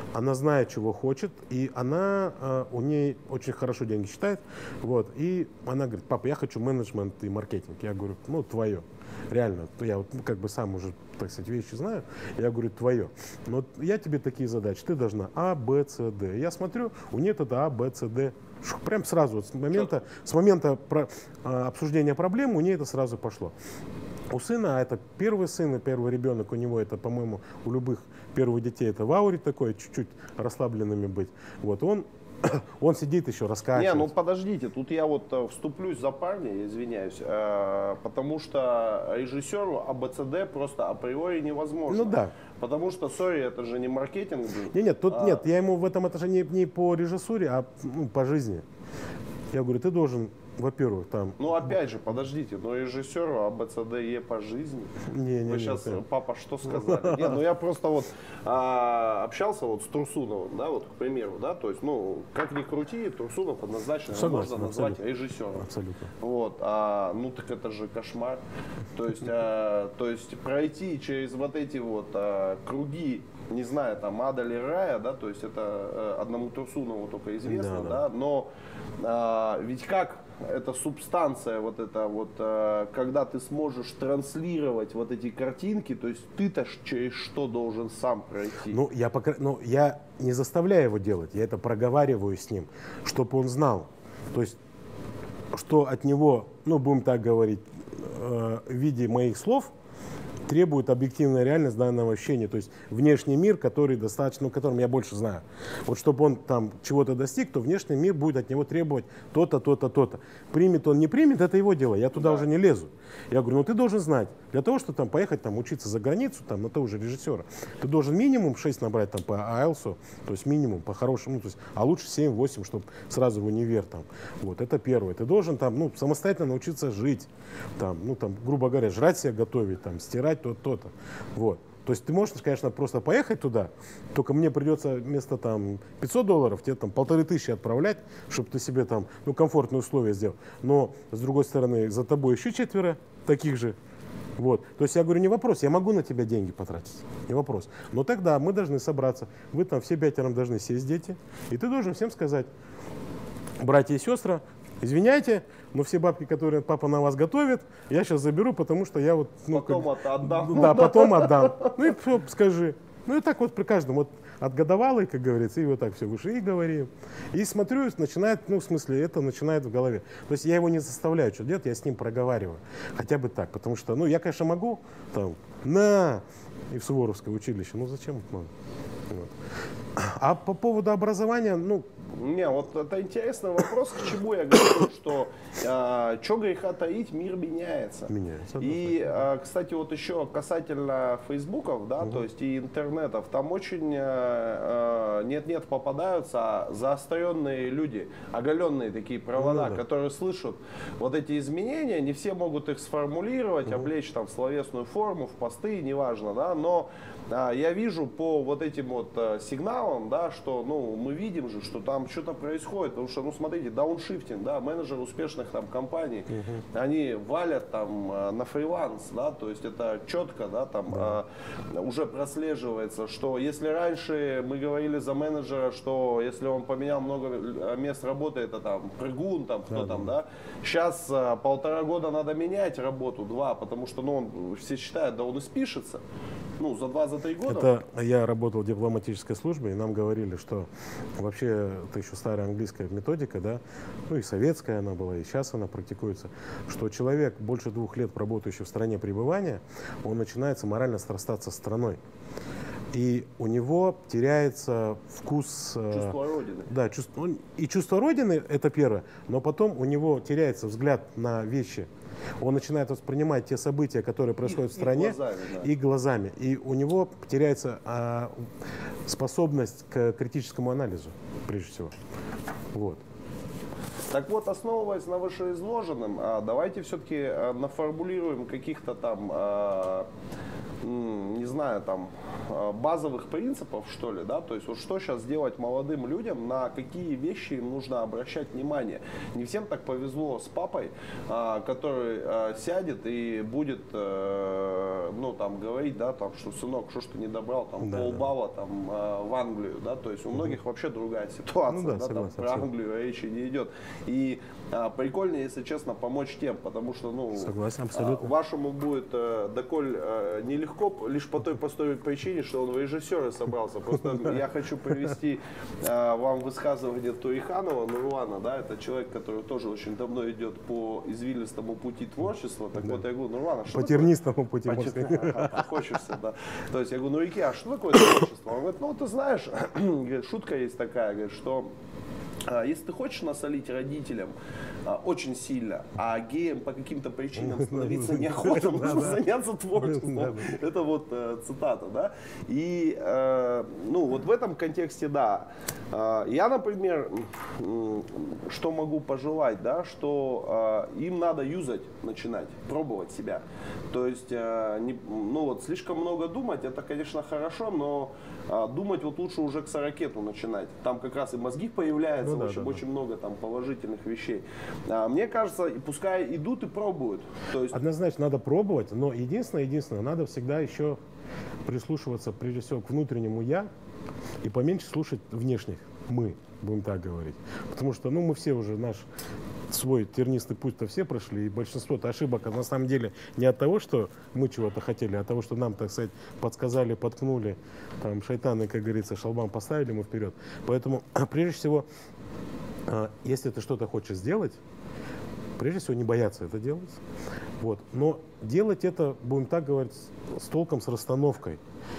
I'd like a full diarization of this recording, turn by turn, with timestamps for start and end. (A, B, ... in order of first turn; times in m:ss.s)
0:00.1-0:23.5 A
0:24.3-0:34.1 A
0:33.7-0:45.5 B
0:41.9-0:42.3 A
0:44.7-0:48.6 A
0:49.5-0:51.7 A
0:51.4-1:05.7 B
0:55.0-0:56.0 A
0:56.7-0:57.4 A
1:04.1-1:05.0 A
1:05.5-1:06.1 A
1:06.2-1:08.4 B
1:08.9-1:18.5 B
1:17.4-1:18.0 A
1:19.0-1:28.8 B
1:28.7-1:34.6 A
1:35.5-1:39.7 A
1:40.5-2:23.8 A
1:52.1-1:52.4 B
2:24.4-2:32.5 A
2:33.6-2:58.5 A
2:39.5-2:41.9 B
2:59.1-2:59.3 A
2:59.9-3:01.9 A
3:02.1-3:56.0 B
3:08.1-3:09.1 A
3:19.4-3:19.8 A
3:36.3-3:36.6 A
3:40.9-3:41.2 A
3:49.7-3:50.1 A
3:56.6-3:57.7 B
3:57.5-4:12.0 A
4:12.9-4:16.2 A
4:15.9-4:16.7 B
4:16.7-4:21.9 A
4:22.4-4:28.5 A
4:24.4-4:25.7 B
4:29.0-4:32.0 A
4:32.7-4:33.0 A
4:34.1-4:40.1 B
4:40.8-5:24.1 B
4:57.8-4:58.3 A
5:01.7-5:02.7 A
5:07.4-5:08.3 A
5:14.0-5:14.3 A
5:23.7-5:25.7 A
5:24.6-5:31.7 B
5:32.4-6:07.8 B
5:37.4-5:39.2 A
5:39.8-5:40.6 A
6:02.2-6:02.8 A
6:07.7-6:11.0 A
6:11.6-6:13.7 A
6:14.4-6:19.1 A
6:19.7-6:31.8 A
6:32.9-6:34.6 A
6:35.6-6:37.0 A
6:37.6-6:41.6 A